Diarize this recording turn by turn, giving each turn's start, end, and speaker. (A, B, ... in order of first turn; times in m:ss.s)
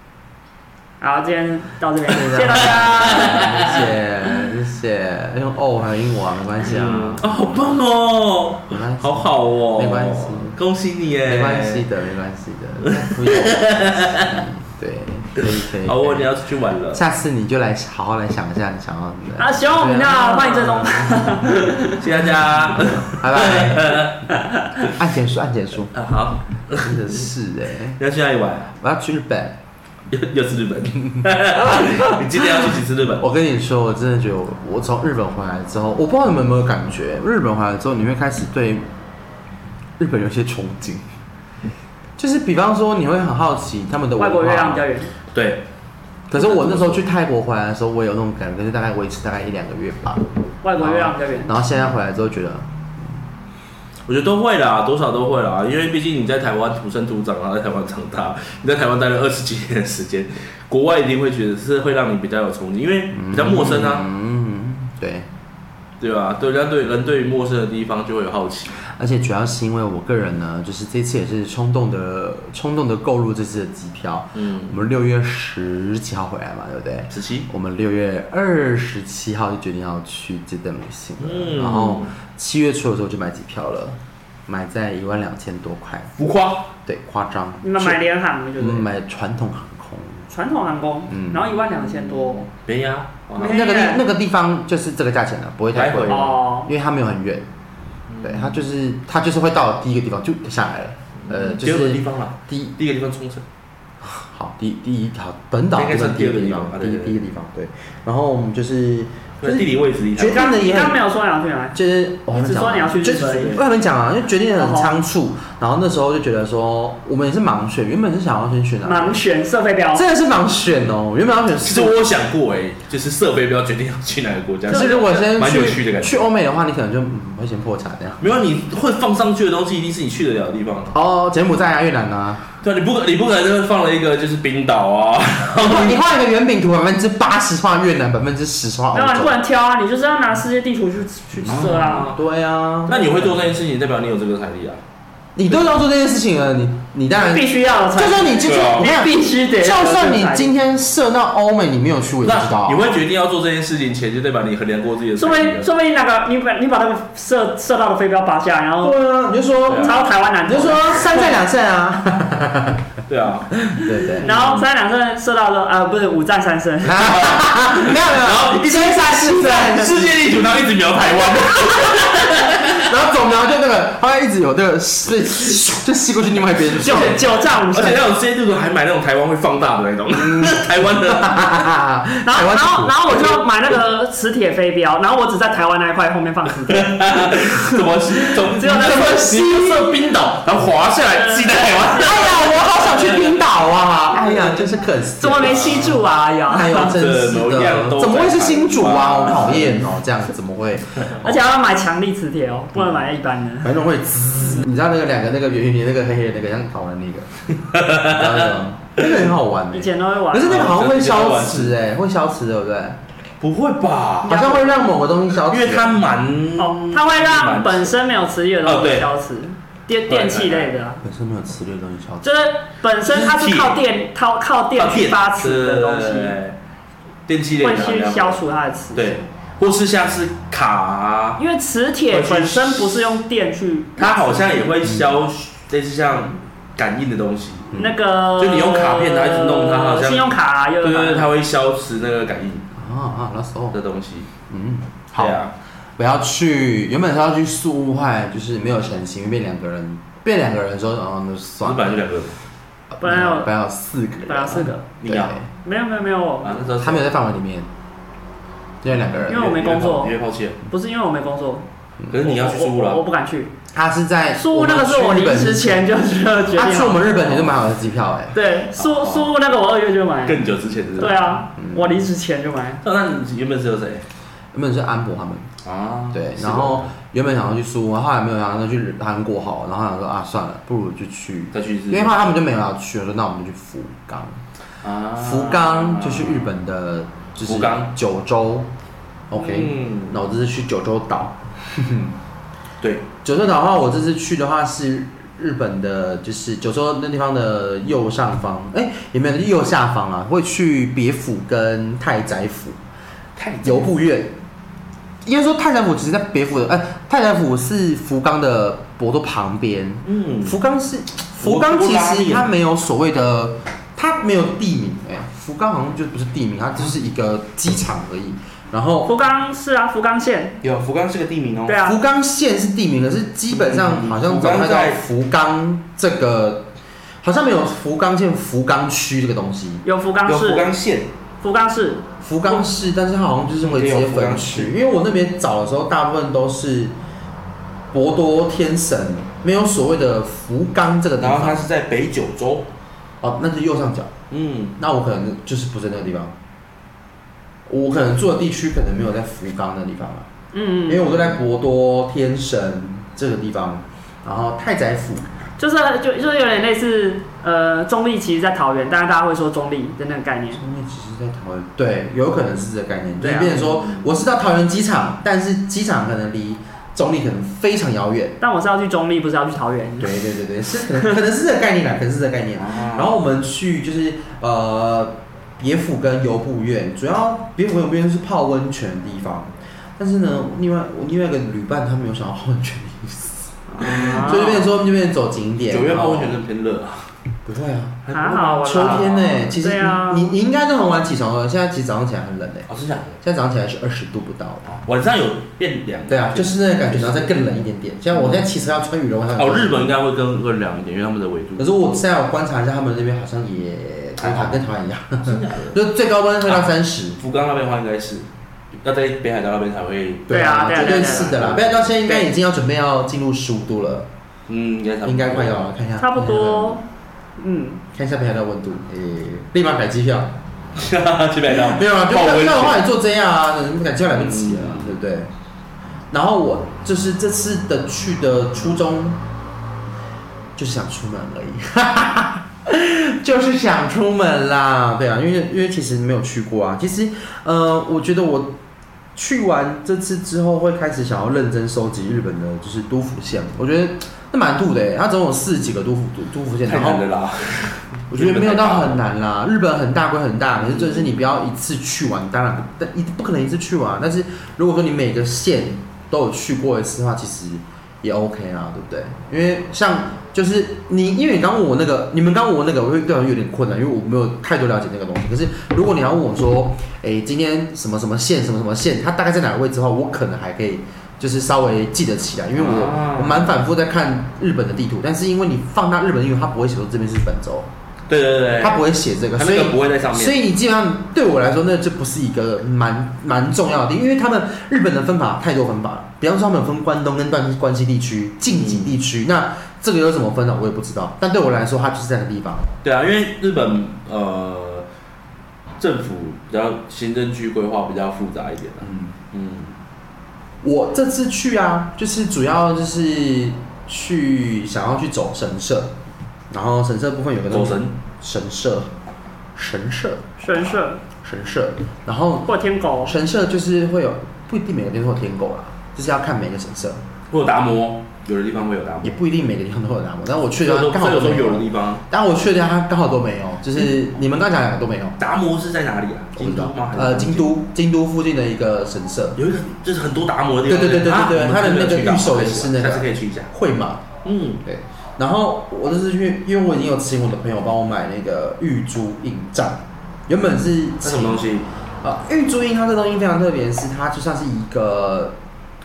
0:01.0-0:03.9 A
0:02.0-0:07.4 B
0:03.2-0:03.7 C
0:06.6-0:11.9 C
0:08.7-0:10.6 B
0:11.2-0:16.3 B
0:12.9-0:14.4 C
0:15.4-0:17.0 C
0:16.9-0:21.2 B
0:19.4-0:22.1 A
0:20.4-0:21.1 C
0:22.0-0:24.3 C
0:23.1-0:24.1 B
0:24.9-0:26.0 B
0:25.9-0:27.3 C
0:26.8-0:28.0 B
0:28.0-0:28.7 C
0:28.8-0:29.6 B
0:30.1-0:33.3 C
0:31.6-0:32.7 B
0:33.2-0:38.9 B
0:40.0-0:41.0 B
0:42.2-0:44.9 B
0:44.2-0:45.1 A
0:45.3-0:45.6 C
0:46.3-0:50.2 B
0:46.3-0:47.0 C
0:50.6-0:51.5 A
0:50.8-0:52.7 B
0:54.1-1:04.0 C
1:03.1-1:05.3 B
1:06.0-1:08.7 C
1:08.8-1:26.1 B
1:14.3-1:14.8 C
1:17.1-1:17.5 C
1:21.2-1:22.1 C
1:26.2-1:26.7 C
1:26.8-1:28.0 B
1:27.6-1:28.9 A
1:28.6-1:30.3 B
1:30.3-1:32.5 A
1:31.1-1:31.5 B
1:32.6-1:33.6 C
1:33.4-1:34.0 A
1:33.4-1:37.5 B
1:35.7-1:36.4 C
1:36.1-1:36.7 A
1:38.1-1:38.6 C
1:38.2-1:42.8 B
1:41.2-1:43.4 C
1:44.0-1:51.0 B
1:45.7-1:47.2 C
1:49.4-1:50.5 C
1:50.3-1:51.8 A
1:51.7-1:59.2 B
1:52.3-1:53.6 A
1:53.2-1:53.6 C
1:54.6-1:55.0 A
1:58.8-2:00.1 A
1:59.9-2:02.0 B
2:01.6-2:06.2 C
2:04.7-2:08.3 B
2:04.7-2:05.3 A
2:08.2-2:10.9 C
2:10.9-2:12.4 B
2:12.6-2:16.0 C
2:15.6-2:19.4 B
2:18.9-2:22.1 A
2:21.4-2:22.2 C
2:21.5-2:23.4 B
2:22.9-2:24.8 C
2:25.4-2:32.8 B
2:27.1-2:30.5 A
2:28.4-2:28.9 C
2:32.2-2:35.7 C
2:35.2-2:39.0 A
2:38.8-2:42.8 B
2:39.7-2:40.0 C
2:39.8-2:41.4 A
2:43.1-2:43.5 C
2:43.5-2:44.3 B
2:44.1-2:44.7 C
2:44.2-2:47.1 A
2:46.8-2:50.2 B
2:47.0-2:52.9 C
2:51.2-2:57.3 B
2:56.8-2:58.0 A
2:56.8-3:01.6 C
3:00.1-3:03.4 B
3:02.3-3:07.0 A
3:06.7-3:13.3 C
3:08.5-3:09.3 A
3:08.6-3:10.1 B
3:11.0-3:12.7 A
3:12.0-3:21.4 B
3:15.2-3:16.9 A
3:15.5-3:15.9 C
3:16.9-3:19.9 C
3:21.2-3:23.7 A
3:22.8-3:23.0 B
3:23.6-3:33.0 B
3:27.7-3:29.1 C
3:29.7-3:30.8 A
3:30.4-3:31.8 C
3:33.4-3:34.5 C
3:34.2-3:36.0 B
3:34.3-3:34.9 A
3:35.5-3:38.0 C
3:36.6-3:41.0 A
3:38.6-3:39.1 C
3:40.1-3:40.7 C
3:41.0-3:42.4 B
3:42.2-3:46.4 A
3:43.1-3:43.8 C
3:44.8-3:46.6 C
3:47.3-3:48.4 C
3:47.6-3:49.2 A
3:49.0-3:51.4 C
3:51.4-3:54.7 A
3:52.1-3:53.2 C
3:54.0-3:57.7 C
3:54.8-3:55.1 B
3:57.8-4:01.3 A
3:58.4-4:02.6 C
4:02.7-4:03.8 B
4:03.7-4:04.3 C
4:04.5-4:05.4 B
4:05.2-4:05.5 C
4:06.0-4:11.9 B
4:11.6-4:12.4 C
4:12.9-4:15.5 B
4:13.0-4:13.5 A
4:14.3-4:15.0 A
4:15.0-4:15.4 C
4:15.6-4:16.6 A
4:16.4-4:17.1 C
4:16.8-4:17.7 B
4:18.8-4:19.5 B
4:19.1-4:20.6 C
4:19.3-4:20.2 A
4:20.7-4:23.5 A
4:22.1-4:23.0 C
4:23.7-4:25.9 B
4:24.4-4:27.4 A
4:26.5-4:28.4 B
4:28.3-4:32.8 A
4:28.8-4:29.3 C
4:30.2-4:31.4 C
4:31.6-4:32.0 B
4:32.8-4:34.1 C
4:34.5-4:35.5 B
4:35.6-4:36.9 C
4:36.1-4:44.4 B
4:41.5-4:42.4 C
4:44.8-4:46.5 C
4:45.2-4:48.7 B
4:47.4-4:47.9 C
4:49.3-4:52.2 B
4:49.3-4:50.2 C
4:52.8-4:53.1 C
4:53.2-5:02.8 B
5:03.4-5:03.9 C
5:03.6-5:04.4 B
5:05.2-5:19.1 B
5:10.0-5:10.6 C
5:11.4-5:12.5 C
5:19.0-5:20.6 A
5:20.6-5:21.8 C
5:21.7-5:22.0 A
5:21.8-5:26.7 B
5:23.5-5:25.0 C
5:27.2-5:29.8 B
5:29.8-5:30.7 A
5:30.2-5:31.1 C
5:31.4-5:32.6 A
5:32.2-5:36.9 B
5:33.6-5:34.7 C
5:37.9-5:41.7 B
5:41.2-5:42.7 C
5:43.2-5:44.1 B
5:44.3-5:44.8 C
5:44.8-5:46.4 B
5:47.7-5:50.3 B
5:50.5-5:51.1 A
5:50.9-5:55.3 B
5:51.1-5:51.4 C
5:55.6-6:00.6 A
6:00.5-6:08.4 B
6:03.2-6:03.6 A
6:03.3-6:04.1 C
6:08.4-6:10.2 A
6:10.0-6:26.4 B
6:12.6-6:13.2 C
6:23.8-6:24.6 C
6:23.8-6:24.7 A
6:25.7-6:27.1 C
6:27.5-6:28.0 B
6:28.0-6:29.5 C
6:28.1-6:30.3 A
6:28.6-6:32.7 B
6:32.7-6:33.2 C
6:33.2-6:34.7 B
6:34.6-6:37.5 C
6:36.1-6:40.0 B
6:38.1-6:38.5 C
6:39.4-6:41.7 C
6:41.6-6:47.2 B
6:44.2-6:44.7 C
6:45.2-6:45.8 C
6:46.4-6:50.3 C
6:50.3-6:54.1 B
6:50.3-6:51.5 A
6:50.8-6:52.2 C
6:54.5-6:55.7 C
6:55.0-6:56.8 B
6:56.0-6:56.8 A
6:57.4-6:57.8 A
6:57.9-7:00.3 B
7:00.8-7:02.8 C
7:01.5-7:05.3 B
7:04.2-7:05.0 C
7:06.1-7:09.2 B
7:10.6-7:18.6 B
7:19.2-7:27.1 B
7:26.7-7:29.0 C
7:28.1-7:57.7 B
7:30.6-7:31.1 C
7:52.6-7:53.5 C
7:58.1-7:58.8 C
7:58.6-8:12.8 B
7:59.4-8:00.4 C
8:08.5-8:09.0 C
8:12.8-8:14.9 C
8:15.8-8:19.7 C
8:18.8-8:19.2 B
8:20.6-8:26.0 B
8:26.5-8:28.9 B
8:27.5-8:28.0 C
8:29.6-8:30.4 B
8:30.4-8:31.0 A
8:31.1-8:32.5 B
8:32.5-8:33.2 A
8:33.0-8:37.0 B
8:37.3-8:39.2 C
8:39.0-8:45.2 B
8:40.6-8:42.0 C
8:45.2-8:47.5 C
8:46.4-8:49.4 B
8:49.4-8:53.5 C
8:50.7-8:54.0 B
8:54.2-8:54.6 C
8:54.6-9:01.5 B
9:01.0-9:01.7 C
9:02.0-9:05.4 B